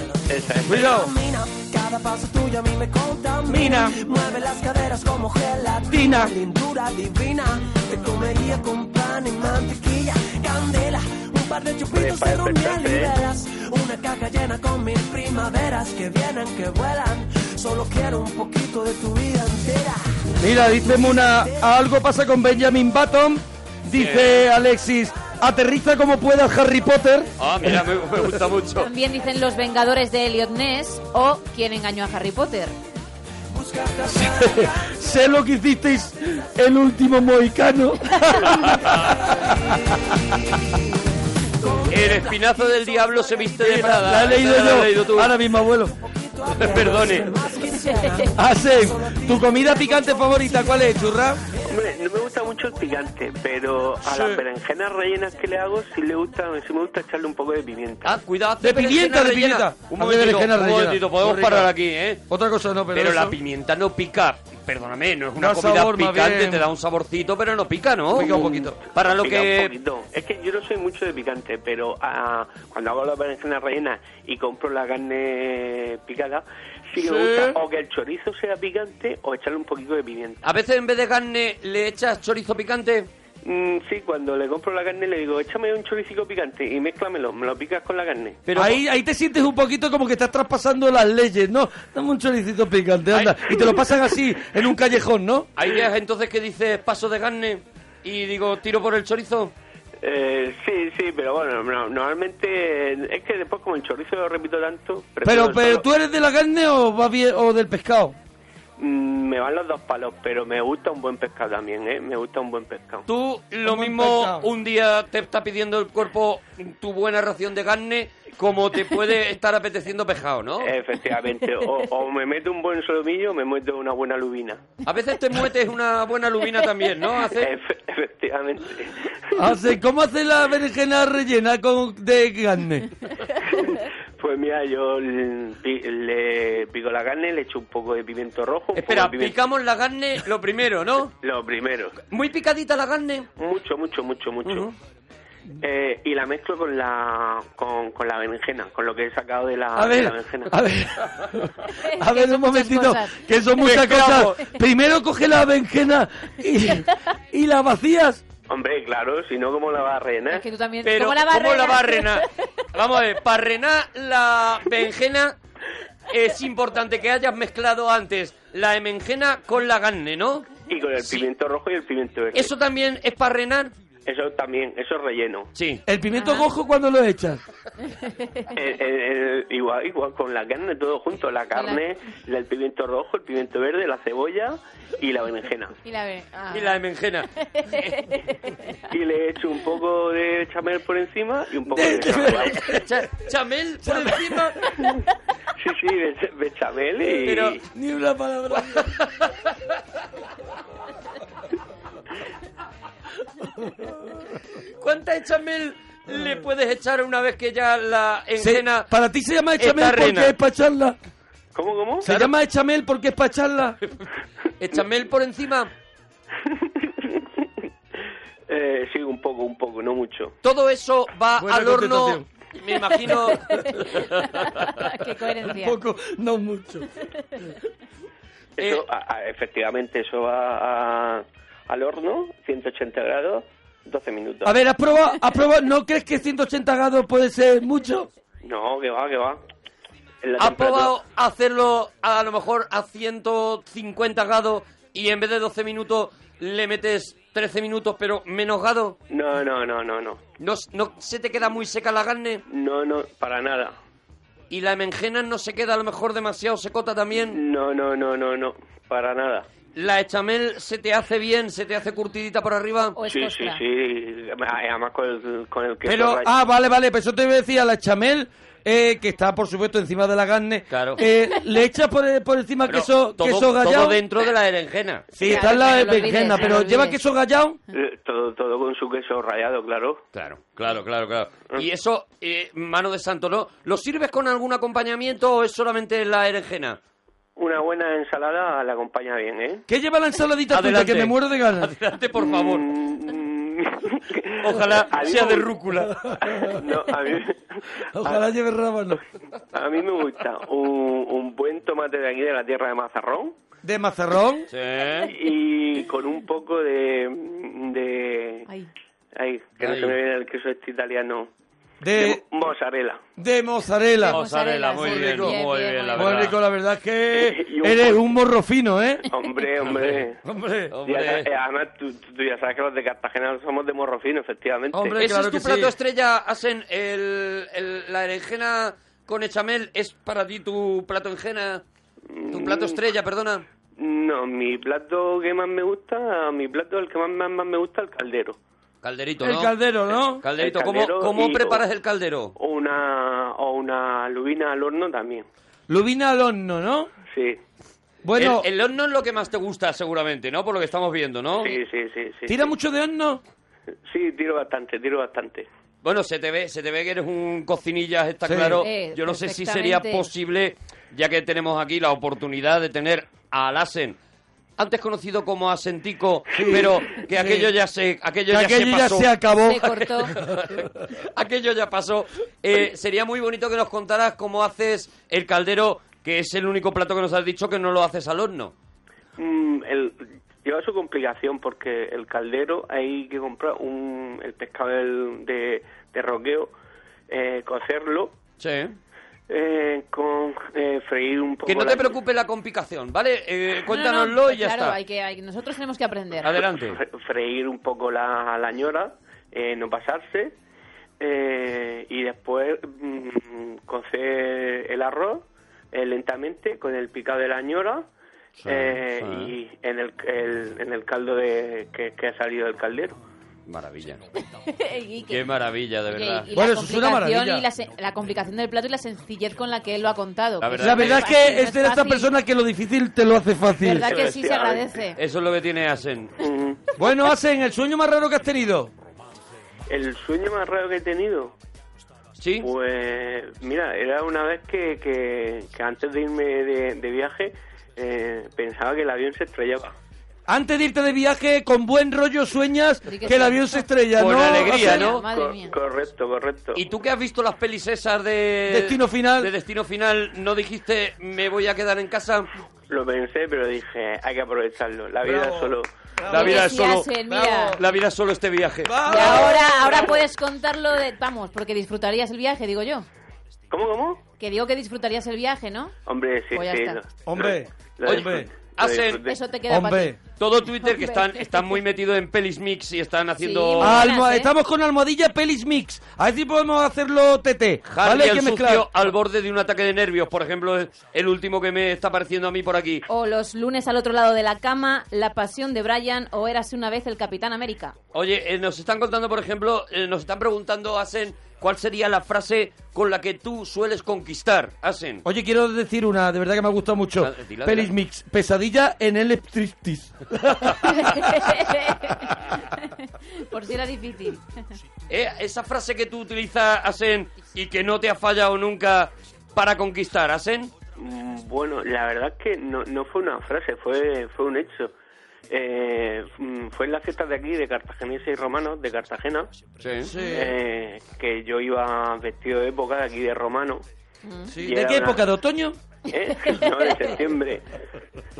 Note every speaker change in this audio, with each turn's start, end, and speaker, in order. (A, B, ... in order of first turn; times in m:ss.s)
0:00.3-0:01.0 A
0:00.6-0:01.1 B
0:00.8-0:21.7 C
0:03.4-0:04.0 B
0:05.9-0:06.3 B
0:11.9-0:13.2 A
0:20.4-0:27.8 B
0:23.9-0:24.4 D
0:27.4-0:28.9 D
0:28.8-0:32.7 E
0:33.5-0:34.9 C
0:34.1-0:39.9 B
0:38.5-0:39.1 D
0:41.6-0:43.4 C
0:41.9-0:45.4 D
0:43.5-0:45.9 B
0:46.0-0:51.0 C
0:46.5-0:47.3 D
0:47.8-0:48.1 E
0:48.3-0:51.4 B
0:51.7-0:58.1 A
0:54.0-0:54.4 B
0:58.0-1:02.2 D
0:58.6-1:01.7 B
1:02.3-1:03.4 B
1:02.9-1:09.7 D
1:05.4-1:06.7 B
1:08.1-1:08.8 B
1:09.1-1:20.4 A
1:17.0-1:17.6 B
1:20.4-1:23.1 D
1:23.4-1:28.4 A
1:28.4-1:28.8 D
1:28.5-1:35.5 B
1:33.1-1:33.5 D
1:35.6-1:39.5 D
1:40.0-1:45.8 A
1:45.2-1:48.2 B
1:48.8-1:53.0 A
1:53.1-2:00.7 D
1:53.6-1:54.5 B
2:00.6-2:04.6 A
2:04.8-2:07.5 D
2:07.4-2:09.4 A
2:09.3-2:12.9 B
2:13.5-2:19.4 A
2:18.7-2:21.1 D
2:21.2-2:22.0 A
2:22.1-2:23.3 D
2:23.4-2:24.7 A
2:24.4-2:24.7 D
2:25.6-2:30.5 A
2:29.7-2:38.2 B
2:31.8-2:33.2 E
2:33.6-2:34.4 D
2:38.5-2:40.4 A
2:40.3-2:42.2 E
2:40.8-2:45.4 D
2:46.1-2:51.3 D
2:50.7-2:52.5 A
2:52.3-2:53.7 D
2:54.0-2:55.5 A
2:55.5-2:55.8 D
2:55.8-2:57.4 B
2:56.1-2:56.5 E
2:57.9-2:58.5 E
2:58.5-3:05.8 A
3:01.5-3:01.8 E
3:05.8-3:06.8 E
3:06.5-3:08.0 D
3:07.4-3:08.7 E
3:08.9-3:12.6 A
3:11.7-3:12.9 B
3:12.2-3:14.5 D
3:13.8-3:14.6 B
3:15.6-3:17.6 A
3:17.2-3:17.6 D
3:17.7-3:18.9 B
3:18.6-3:19.5 D
3:24.8-3:28.9 D
3:28.4-3:31.0 B
3:29.6-3:30.3 D
3:31.5-3:32.1 A
3:32.0-3:33.8 B
3:34.6-3:35.7 D
3:36.5-3:37.3 A
3:38.5-3:40.4 A
3:40.4-3:44.5 D
3:41.4-3:42.2 B
3:43.1-3:45.8 E
3:45.4-3:46.9 B
3:48.6-3:54.6 A
3:54.4-3:58.1 B
3:58.4-3:59.4 A
4:00.2-4:00.9 A
4:00.4-4:09.0 D
4:09.1-4:10.2 A
4:10.4-4:12.4 D
4:12.5-4:13.8 A
4:14.5-4:17.4 D
4:17.3-4:19.5 A
4:19.7-4:23.0 D
4:23.0-4:23.6 E
4:23.0-4:26.3 A
4:25.8-4:34.0 B
4:30.7-4:31.0 D
4:32.7-4:35.2 D
4:35.1-4:37.6 B
4:35.2-4:37.0 E
4:37.7-4:40.0 A
4:40.1-4:46.8 D
4:47.4-4:49.6 A
4:49.7-4:51.7 B
4:50.5-4:52.6 D
4:52.2-4:55.6 A
4:54.4-4:56.0 D
4:56.0-4:56.6 B
4:56.5-4:58.2 A
4:57.9-4:59.0 B
4:59.5-5:03.4 A
5:03.6-5:04.5 B
5:04.5-5:05.1 D
5:05.1-5:08.5 A
5:09.2-5:11.3 A
5:09.6-5:10.0 D
5:11.8-5:12.2 B
5:11.9-5:13.0 A
5:13.2-5:14.2 B
5:14.0-5:16.3 E
5:14.1-5:16.4 D
5:14.8-5:15.4 B
5:15.9-5:19.0 B
5:17.1-5:18.1 A
5:19.1-5:20.2 A
5:19.7-5:20.0 D
5:20.2-5:20.7 B
5:20.7-5:21.3 D
5:20.8-5:25.0 A
5:24.7-5:25.7 B
5:25.0-5:31.6 D
5:32.1-5:32.8 A
5:32.3-5:33.4 D
5:33.8-5:38.4 A
5:38.8-5:42.3 D
5:39.2-5:40.2 B
5:40.4-5:41.6 A
5:42.4-5:45.2 A
5:45.7-5:46.9 B
5:47.1-5:47.4 A
5:48.0-5:48.5 B
5:48.2-5:51.6 D
5:51.4-5:52.5 A
5:52.3-5:53.2 B
5:53.9-5:55.5 A
5:55.8-6:04.0 D
5:58.2-5:58.6 B
5:58.6-6:00.1 E
6:04.6-6:09.2 D
6:06.3-6:07.5 B
6:08.3-6:10.3 B
6:09.4-6:10.1 E
6:10.1-6:18.5 D
6:19.2-6:26.5 A
6:27.1-6:28.1 A
6:28.4-6:28.7 D
6:29.3-6:32.0 A
6:31.4-6:34.8 D
6:33.7-6:36.3 E
6:36.2-6:36.8 D
6:36.3-6:40.3 A
6:41.0-6:47.9 A
6:48.4-6:49.3 D
6:48.5-6:53.0 A
6:53.5-6:54.0 D
6:54.4-6:55.2 E
6:55.1-6:56.3 D
6:55.9-7:02.1 E
6:56.3-6:57.4 B
7:00.4-7:01.1 D
7:00.6-7:04.0 B
7:03.6-7:05.0 E
7:03.8-7:04.8 A
7:05.0-7:06.2 D
7:06.2-7:06.6 A
7:06.8-7:08.7 B
7:09.7-7:11.3 A
7:12.2-7:12.5 D
7:12.4-7:19.7 A
7:20.3-7:24.8 B
7:22.8-7:23.7 E
7:23.9-7:25.0 D
7:24.4-7:25.5 E
7:24.5-7:26.6 A
7:26.5-7:32.3 D
7:28.5-7:29.3 B
7:32.7-7:35.7 A
7:35.0-7:37.6 B
7:36.1-7:36.9 D
7:36.1-7:37.6 E
7:37.6-7:39.4 D
7:38.6-7:39.9 B
7:38.8-7:42.8 E
7:43.5-7:44.0 A
7:44.2-7:45.7 E
7:45.8-7:49.2 A
7:46.3-7:46.8 E
7:47.0-7:48.3 B
7:47.8-7:49.0 D
7:49.0-7:50.0 E
7:49.5-7:50.0 B
7:50.2-7:53.9 D
7:50.5-7:51.6 E
7:53.2-7:54.3 E
7:53.6-7:58.7 B
7:57.6-8:02.8 D
8:02.9-8:07.7 E
8:07.9-8:15.0 D
8:15.0-8:20.7 B
8:17.0-8:17.7 D
8:20.6-8:22.6 E
8:23.3-8:24.2 E
8:24.9-8:30.5 D
8:30.8-8:34.7 A
8:35.3-8:39.3 A
8:39.6-8:39.9 D
8:39.8-8:40.4 B
8:40.0-8:43.6 A
8:44.0-8:44.3 E
8:44.3-8:45.6 B
8:44.4-8:45.1 A
8:45.9-8:47.4 A
8:46.2-8:46.7 E